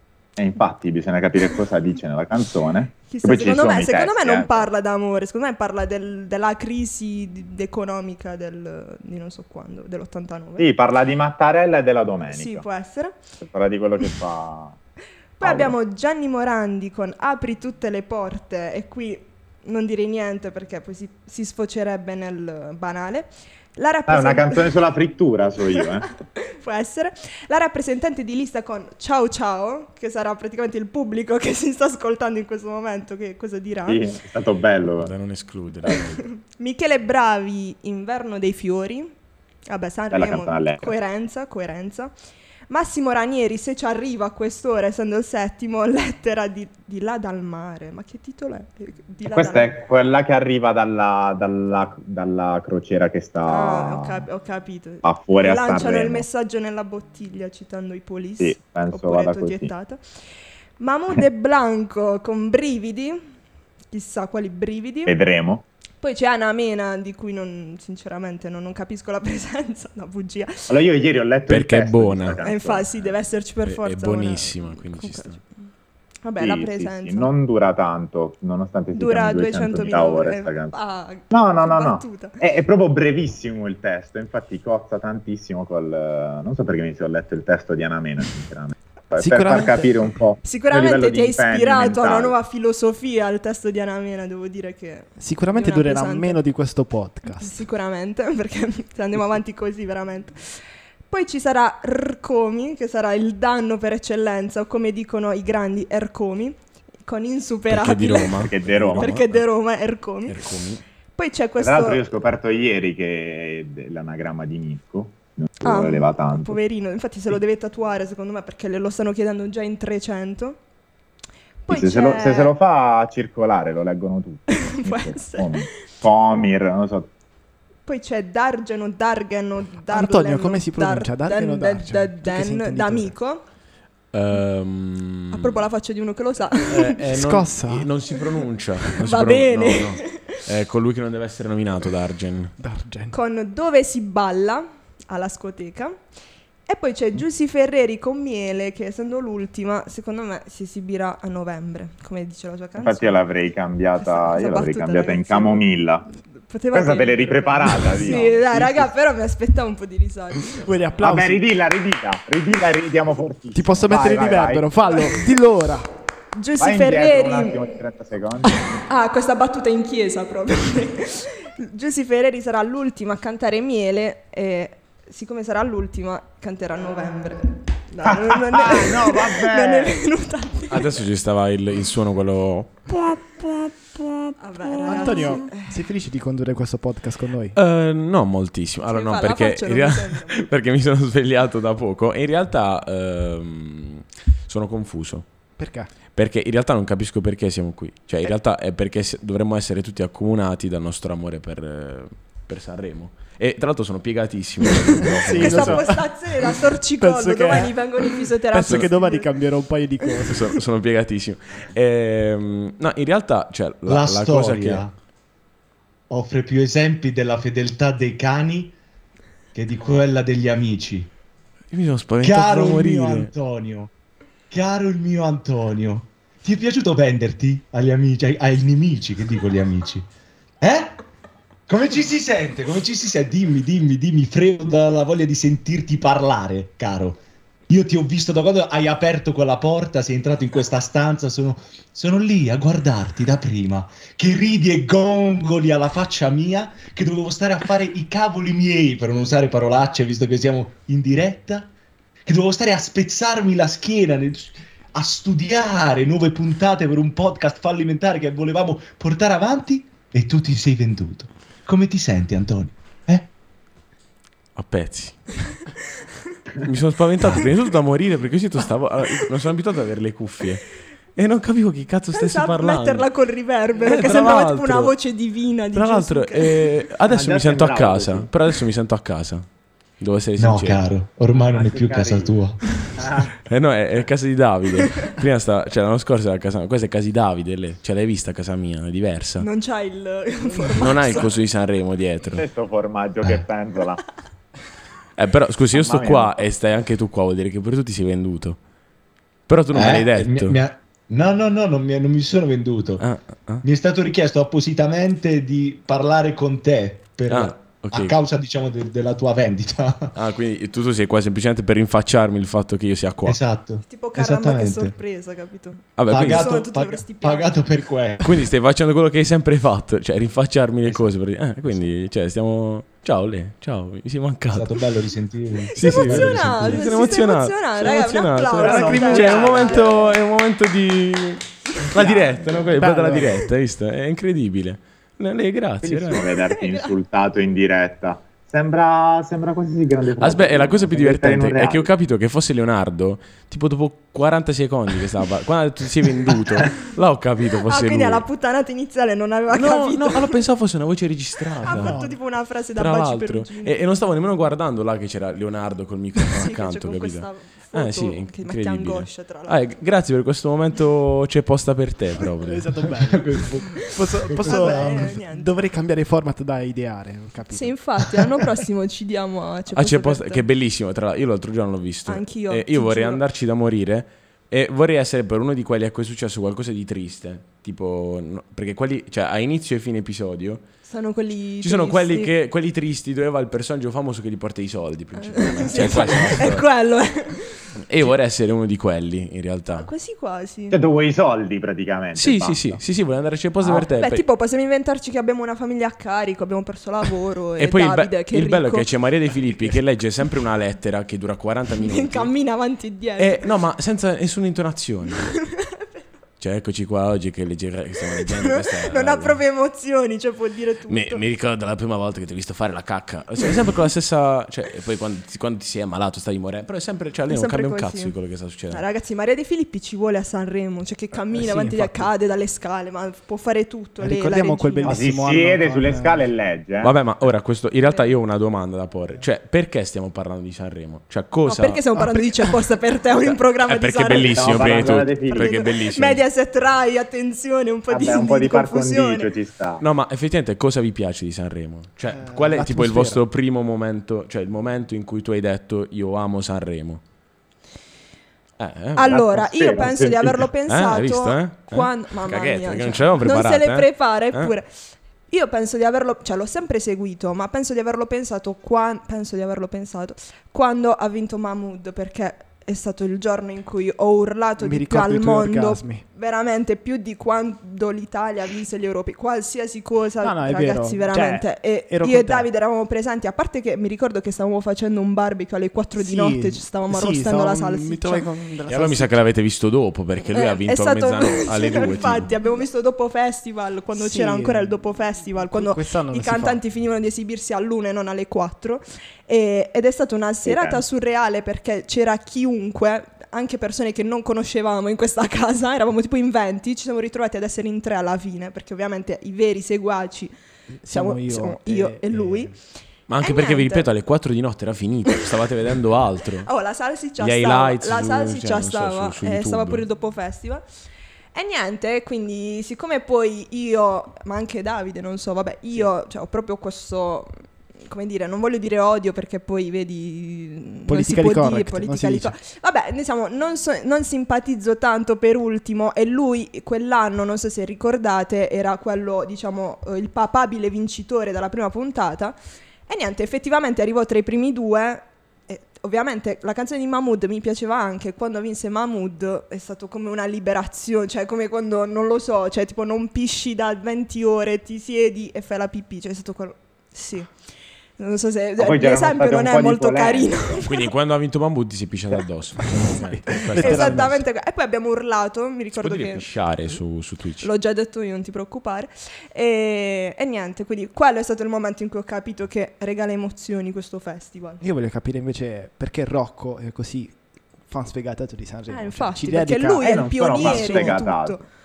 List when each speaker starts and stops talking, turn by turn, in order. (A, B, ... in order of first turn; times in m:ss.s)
0:00.4-0:04.7 A
0:03.1-0:10.7 B
0:10.6-0:12.6 A
0:12.3-0:13.2 B
0:13.4-0:14.8 A
0:15.4-0:24.8 B
0:15.4-0:15.8 A
0:24.1-0:26.1 A
0:26.4-0:34.0 B
0:33.9-0:35.1 A
0:35.0-0:36.2 C
0:35.9-0:39.1 B
0:39.7-0:42.1 B
0:40.1-0:40.9 A
0:42.7-0:49.8 B
0:49.3-0:54.3 A
0:53.5-1:00.0 B
0:55.0-0:56.3 A
0:58.4-0:59.7 A
1:00.8-1:03.2 B
1:03.9-1:05.2 B
1:05.1-1:05.6 A
1:06.0-1:10.7 B
1:10.7-1:13.2 A
1:11.5-1:12.4 C
1:12.4-1:15.4 B
1:13.7-1:15.4 C
1:16.2-1:17.3 B
1:16.4-1:20.8 A
1:18.9-1:22.4 B
1:21.3-1:32.4 A
1:29.2-1:29.9 D
1:30.4-1:36.4 B
1:35.2-1:37.6 D
1:37.3-1:40.6 B
1:41.1-1:50.4 B
1:47.7-1:49.4 C
1:48.4-1:49.2 A
1:50.3-1:50.8 C
1:51.2-1:52.0 B
1:51.6-1:56.6 A
1:55.6-2:00.6 B
2:01.7-2:02.5 B
2:01.7-2:07.1 A
2:04.5-2:05.8 B
2:07.9-2:13.4 B
2:09.9-2:13.1 D
2:14.1-2:15.6 C
2:15.3-2:17.0 B
2:16.7-2:22.5 C
2:17.1-2:17.9 D
2:18.9-2:20.4 B
2:22.6-2:23.2 D
2:23.1-2:26.0 B
2:26.7-2:33.2 B
2:32.8-2:36.1 A
2:34.0-2:35.6 B
2:36.5-2:40.7 B
2:36.7-2:38.9 A
2:37.8-2:38.4 D
2:40.5-2:41.5 D
2:41.0-2:44.7 A
2:43.5-2:45.9 D
2:46.4-2:47.7 B
2:46.6-2:48.6 A
2:48.6-3:01.0 B
2:58.0-3:00.0 A
3:00.7-3:03.5 C
3:04.4-3:05.8 B
3:04.9-3:07.6 D
3:07.6-3:15.3 C
3:08.9-3:10.5 B
3:15.6-3:15.9 D
3:16.1-3:25.9 C
3:25.1-3:30.6 D
3:25.3-3:29.4 B
3:30.3-3:34.8 C
3:33.9-3:34.9 E
3:36.1-3:38.8 E
3:39.5-3:41.1 E
3:41.7-3:43.3 C
3:42.2-3:43.9 E
3:44.5-3:50.1 E
3:50.6-3:51.0 E
3:51.7-4:11.7 E
4:12.3-4:23.3 E
4:24.6-4:25.4 C
4:26.6-4:33.1 C
4:32.1-4:36.7 B
4:33.8-4:35.0 C
4:35.7-4:39.5 C
4:37.1-4:38.3 A
4:40.0-4:40.8 C
4:40.4-4:43.0 E
4:41.5-4:42.4 A
4:43.0-4:43.4 A
4:43.4-4:49.5 C
4:49.4-4:51.3 B
4:50.8-4:52.4 C
4:52.4-4:54.2 A
4:55.2-4:58.6 C
4:55.7-4:56.3 A
4:59.5-5:00.6 C
4:59.7-5:03.0 E
5:03.0-5:03.6 C
5:03.6-5:10.2 E
5:07.3-5:08.2 C
5:10.2-5:13.4 C
5:13.2-5:15.0 E
5:13.8-5:17.6 B
5:16.0-5:16.6 C
5:16.1-5:18.3 E
5:18.2-5:24.8 C
5:20.9-5:21.1 E
5:24.5-5:26.9 E
5:25.7-5:30.0 B
5:25.8-5:36.2 C
5:28.6-5:29.8 D
5:28.7-5:29.6 E
5:29.6-5:30.1 A
5:32.8-5:33.4 D
5:35.8-5:41.9 A
5:36.5-5:36.9 B
5:40.2-5:48.2 C
5:47.6-5:50.4 B
5:49.5-5:52.0 C
5:51.6-5:52.2 D
5:51.6-5:53.8 B
5:52.8-6:02.7 C
5:56.3-5:59.7 B
6:02.4-6:07.8 D
6:03.0-6:05.2 E
6:04.2-6:05.5 B
6:07.5-6:10.4 B
6:09.7-6:20.6 C
6:12.1-6:13.2 B
6:20.8-6:22.3 B
6:21.6-6:26.7 C
6:25.2-6:27.7 B
6:27.9-6:29.9 C
6:29.8-6:30.8 B
6:30.7-6:32.8 A
6:32.2-6:34.2 C
6:33.9-6:38.9 B
6:37.6-6:42.3 C
6:41.8-6:43.5 B
6:43.2-6:45.3 C
6:45.3-6:45.9 B
6:46.4-6:49.4 C
6:48.2-6:51.2 B
6:50.9-6:58.8 C
6:57.3-6:58.2 B
6:58.7-7:05.0 B
7:01.3-7:02.1 D
7:04.0-7:06.3 D
7:04.8-7:06.9 A
7:06.8-7:11.8 C
7:11.5-7:19.3 B
7:13.2-7:16.2 C
7:14.2-7:15.6 A
7:17.9-7:19.8 A
7:19.8-7:27.0 C
7:22.1-7:23.2 D
7:28.6-7:29.2 C
7:29.0-7:58.3 B
7:29.1-7:30.5 A
7:30.7-7:34.5 C
7:44.6-7:46.0 D
7:50.2-7:52.5 D
7:56.0-7:59.2 D
7:58.7-8:02.4 C
8:00.3-8:20.3 B
8:03.9-8:04.8 D
8:05.5-8:06.6 D
8:10.4-8:10.8 A
8:20.8-8:22.6 D
8:20.9-8:22.5 B
8:23.1-8:26.5 C
8:23.2-8:23.9 B
8:26.4-8:30.6 B
8:27.2-8:29.8 C
8:31.3-8:37.3 B
8:37.8-9:07.3 B
8:40.9-8:42.4 D
9:08.0-9:10.9 B
9:08.6-9:10.6 A
9:10.6-9:14.2 C
9:12.8-9:14.2 D
9:13.6-9:16.3 B
9:15.8-9:17.5 C
9:17.4-9:24.6 B
9:24.6-9:31.0 D
9:28.7-9:31.4 B
9:29.8-9:31.4 A